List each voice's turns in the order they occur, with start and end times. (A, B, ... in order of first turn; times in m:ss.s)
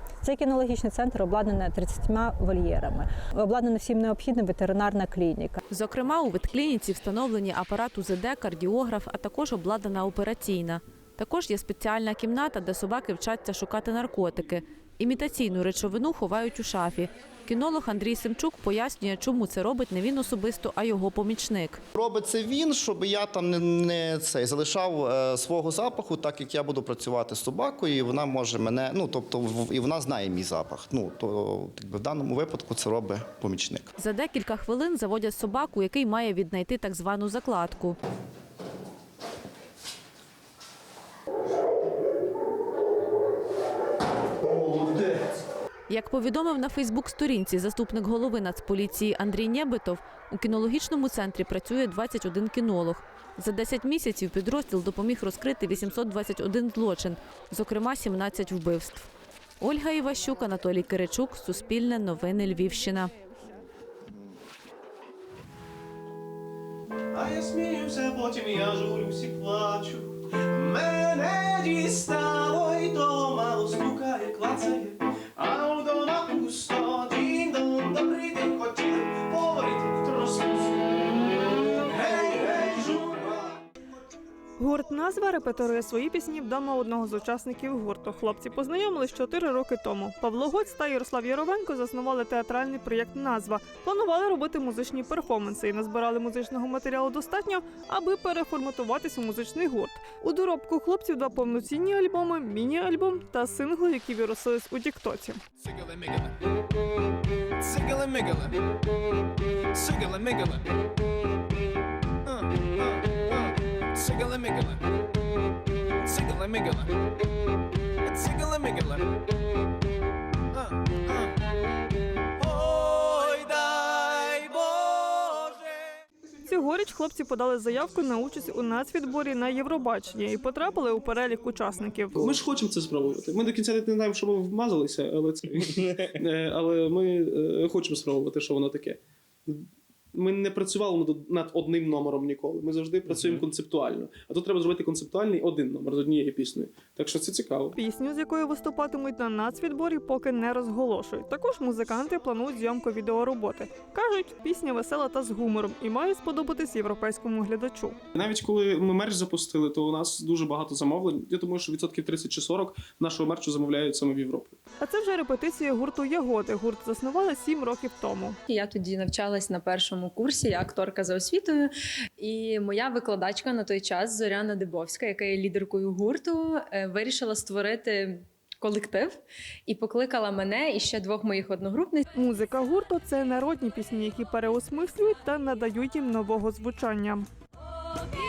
0:00.2-0:05.6 A
0:05.7-0:21.8 B
0:21.9-0:33.9 C
0:34.0-0:38.0 B
0:45.9-0:59.1 B
0:59.6-1:03.1 B
1:07.1-1:20.7 D
1:21.8-1:23.4 D
1:24.6-1:45.4 E
1:45.7-1:46.2 D
1:47.6-1:48.5 D
1:49.7-1:50.6 D
1:54.0-1:54.8 D
1:56.0-1:56.9 D
1:58.1-1:59.0 D
2:02.5-2:05.6 D
2:06.4-2:12.4 E
2:12.1-2:27.8 F
2:27.8-2:38.0 E
2:38.1-2:44.6 F
2:44.8-2:48.4 E
2:48.5-3:02.0 G
3:02.1-3:07.3 E